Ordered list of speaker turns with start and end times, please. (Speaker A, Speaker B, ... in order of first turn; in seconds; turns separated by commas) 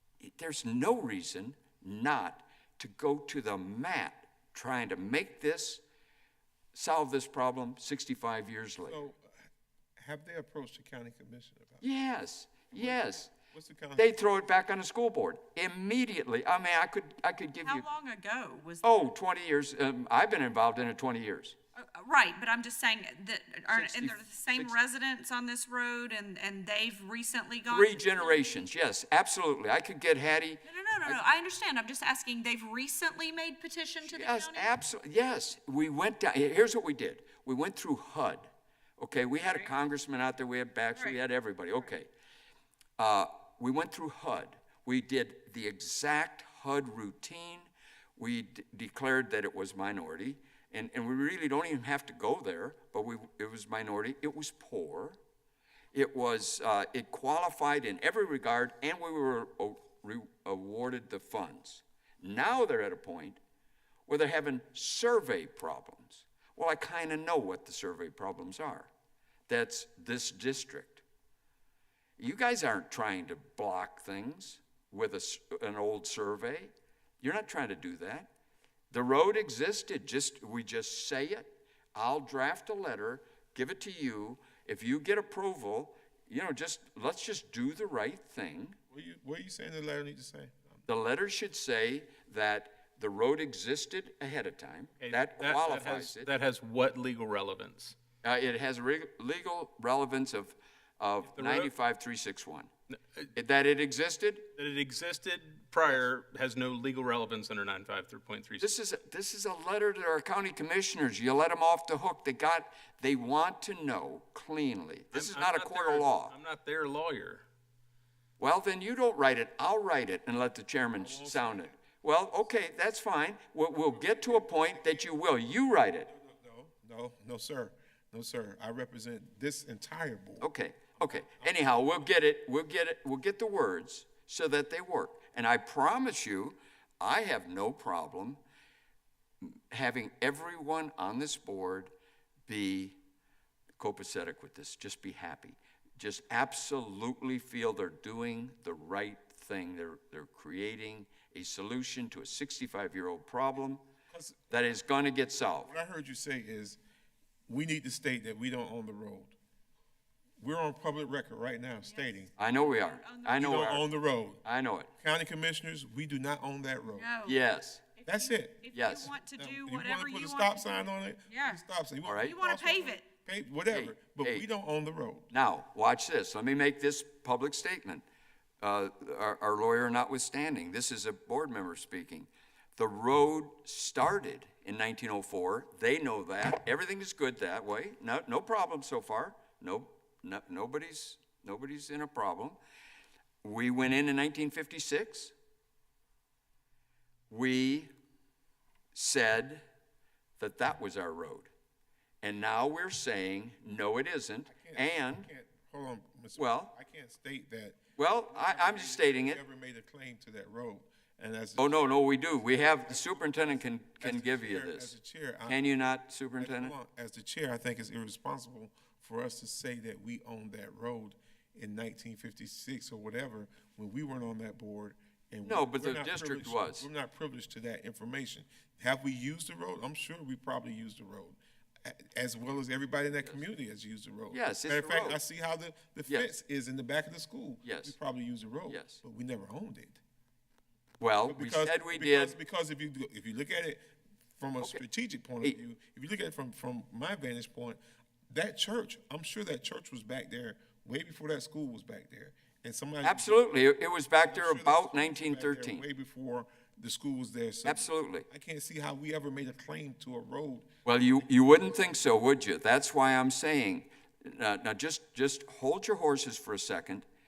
Speaker A: 0.2-5.8, Speaker A: 6.7-9.0, Speaker B: 8.8-9.3, Speaker B: 10.0-11.8, Speaker A: 11.8-13.3, Speaker B: 12.7-14.3, Speaker A: 14.0-17.9, Speaker C: 17.6-19.0, Speaker A: 18.8-21.6, Speaker C: 21.8-28.5, Speaker A: 23.7-24.8, Speaker A: 27.7-31.4, Speaker C: 30.6-34.7, Speaker A: 34.0-42.1, Speaker C: 39.4-39.7, Speaker A: 43.0-55.2, Speaker A: 55.9-63.4, Speaker A: 64.1-68.9, Speaker A: 69.5-71.0, Speaker A: 72.2-78.3, Speaker A: 78.9-88.8, Speaker B: 88.9-90.8, Speaker A: 90.9-96.3, Speaker D: 95.0-98.0, Speaker A: 98.2-102.7, Speaker D: 101.2-101.7, Speaker A: 103.3-104.5, Speaker D: 104.5-108.7, Speaker A: 108.6-116.3, Speaker D: 115.1-117.5, Speaker A: 118.4-126.1, Speaker B: 121.0-121.8, Speaker B: 123.8-125.1, Speaker B: 126.1-131.9, Speaker A: 130.4-138.4, Speaker A: 139.4-141.9, Speaker A: 142.5-143.0, Speaker A: 143.8-153.8, Speaker B: 154.1-154.7, Speaker A: 154.5-155.7, Speaker B: 155.4-156.8, Speaker B: 157.5-159.4, Speaker B: 160.4-162.3, Speaker C: 161.8-163.6, Speaker A: 162.4-163.9, Speaker B: 163.3-164.4, Speaker A: 164.4-164.9, Speaker B: 165.0-167.1, Speaker C: 166.9-167.4, Speaker A: 167.2-167.8, Speaker C: 168.0-170.7, Speaker B: 168.1-175.3, Speaker A: 168.7-169.1, Speaker C: 171.3-171.6, Speaker A: 172.0-172.3, Speaker C: 172.2-173.1, Speaker A: 173.7-174.4, Speaker A: 175.3-178.0, Speaker A: 178.6-192.6, Speaker A: 193.4-195.3, Speaker A: 197.3-197.9, Speaker A: 198.9-199.6, Speaker A: 200.4-201.5, Speaker A: 202.2-205.3, Speaker B: 204.5-215.8, Speaker A: 206.4-206.7, Speaker A: 208.0-209.4, Speaker A: 211.6-214.9, Speaker A: 215.5-216.8, Speaker B: 216.4-240.0, Speaker A: 225.4-226.9, Speaker A: 234.3-235.2, Speaker A: 236.1-236.3, Speaker A: 237.6-237.9, Speaker A: 238.7-239.0, Speaker A: 241.0-242.3, Speaker B: 241.3-253.5, Speaker A: 253.0-255.8, Speaker B: 254.2-260.7, Speaker A: 257.6-258.3, Speaker A: 260.9-267.1, Speaker B: 261.2-262.0